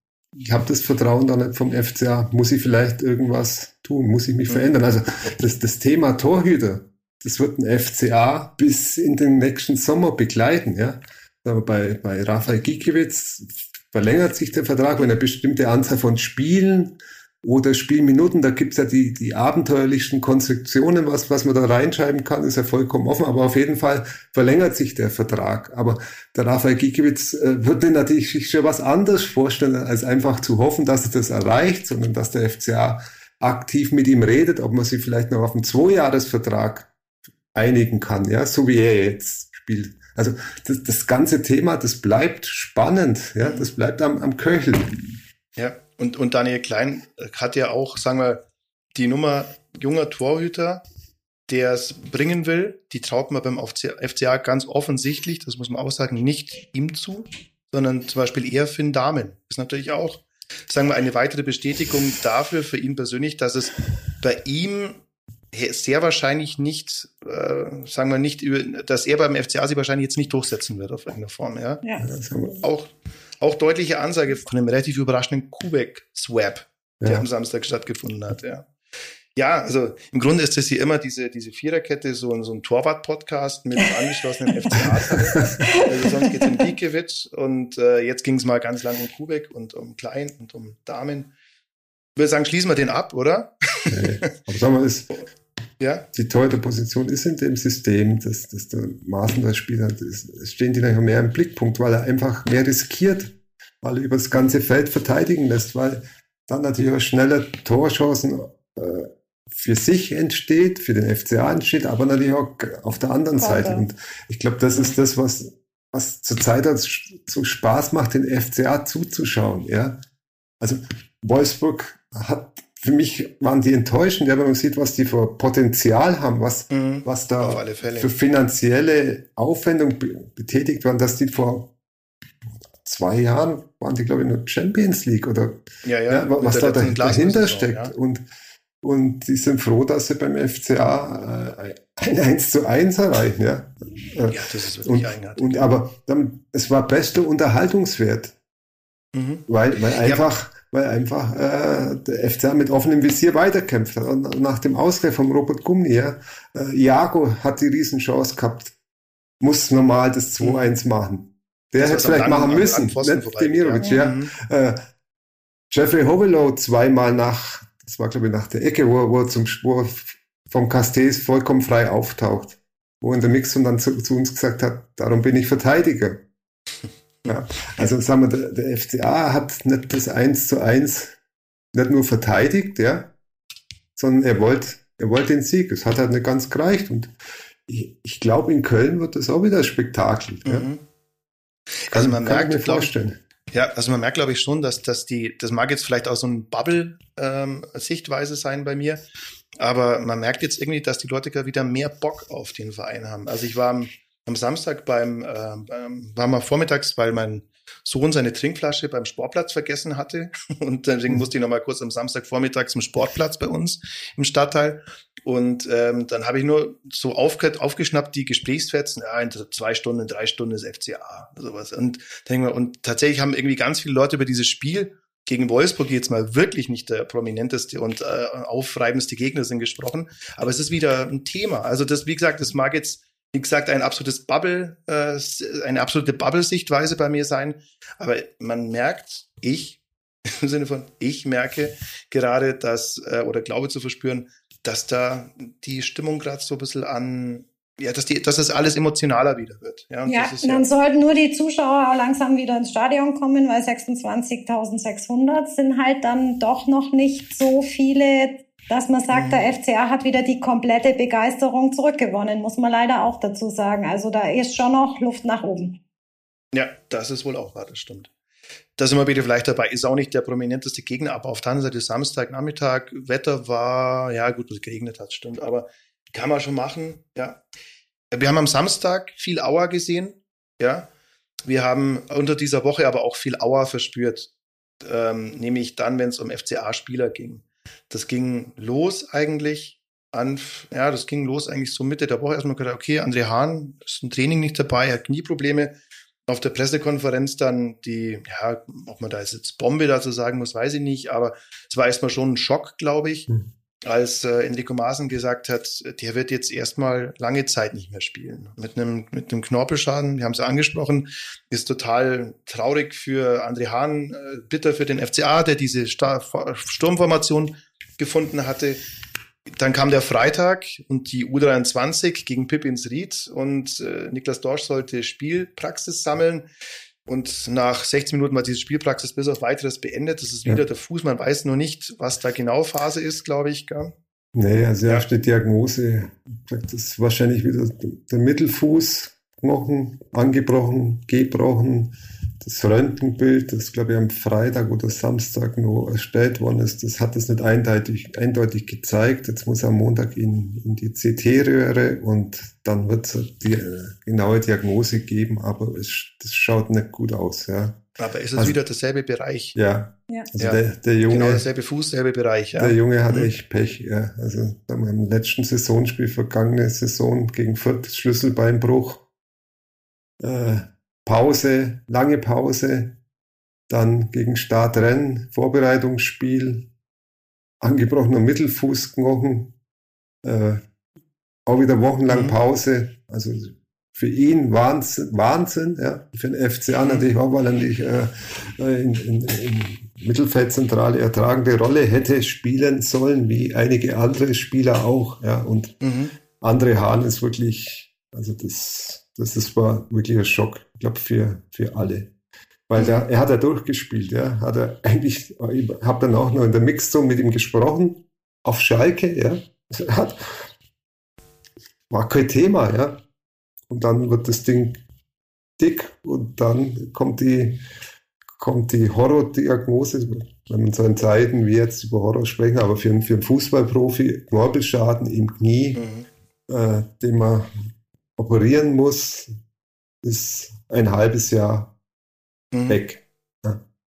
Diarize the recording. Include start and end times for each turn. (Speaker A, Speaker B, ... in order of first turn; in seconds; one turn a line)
Speaker A: 0.3-36.9
Speaker A: 37.5-45.2
Speaker B: 43.4-43.7
Speaker B: 45.6-48.4
Speaker B: 49.0-50.8
Speaker B: 51.5-65.0
Speaker B: 65.5-71.8
Speaker A: 72.0-72.6
Speaker B: 72.6-78.7
Speaker A: 77.0-77.3
Speaker B: 79.3-91.3
Speaker B: 92.2-94.3
Speaker A: 93.9-95.2
Speaker B: 95.8-96.0
Speaker A: 96.1-120.0
Speaker C: 113.3-113.9
Speaker A: 120.6-131.7
Speaker B: 126.7-128.1
Speaker A: 132.8-138.2
Speaker B: 135.8-137.9
Speaker A: 138.8-148.3
Speaker B: 144.3-145.7
Speaker B: 149.1-149.4
Speaker A: 149.5-158.7
Speaker B: 150.0-150.2
Speaker A: 159.4-164.8
Speaker B: 161.8-164.3
Speaker A: 165.7-176.2
Speaker A: 177.3-181.2
Speaker A: 181.7-183.1
Speaker A: 184.0-187.1
Speaker A: 187.7-190.7
Speaker B: 190.5-190.8
Speaker B: 191.9-192.9
Speaker A: 191.9-193.2
Speaker B: 193.5-199.0
Speaker B: 199.6-239.8
Speaker B: 240.3-250.7
Speaker C: 250.1-265.8
Speaker B: 259.1-259.5
Speaker B: 266.5-268.1
Speaker B: 268.8-277.4
Speaker B: 278.1-280.9
Speaker B: 281.4-284.3
Speaker B: 284.8-295.7
Speaker B: 296.3-303.3
Speaker B: 303.8-318.8
Speaker B: 319.6-326.5
Speaker B: 327.1-333.9
Speaker A: 334.4-357.8
Speaker B: 358.0-359.6
Speaker A: 359.6-361.4
Speaker B: 360.4-363.3
Speaker A: 362.6-369.0
Speaker A: 370.2-372.9
Speaker A: 373.7-376.7
Speaker A: 377.6-379.5
Speaker A: 380.2-380.6
Speaker A: 381.5-395.8
Speaker B: 382.1-382.4
Speaker B: 395.8-396.1
Speaker A: 396.4-402.1
Speaker A: 402.7-410.5
Speaker B: 402.8-403.1
Speaker A: 411.9-413.0
Speaker A: 413.7-414.8
Speaker A: 415.6-417.6
Speaker A: 418.4-425.8
Speaker B: 425.8-426.1
Speaker A: 426.5-427.5
Speaker A: 428.2-429.3
Speaker A: 430.0-431.7
Speaker B: 432.5-432.8
Speaker A: 432.7-433.6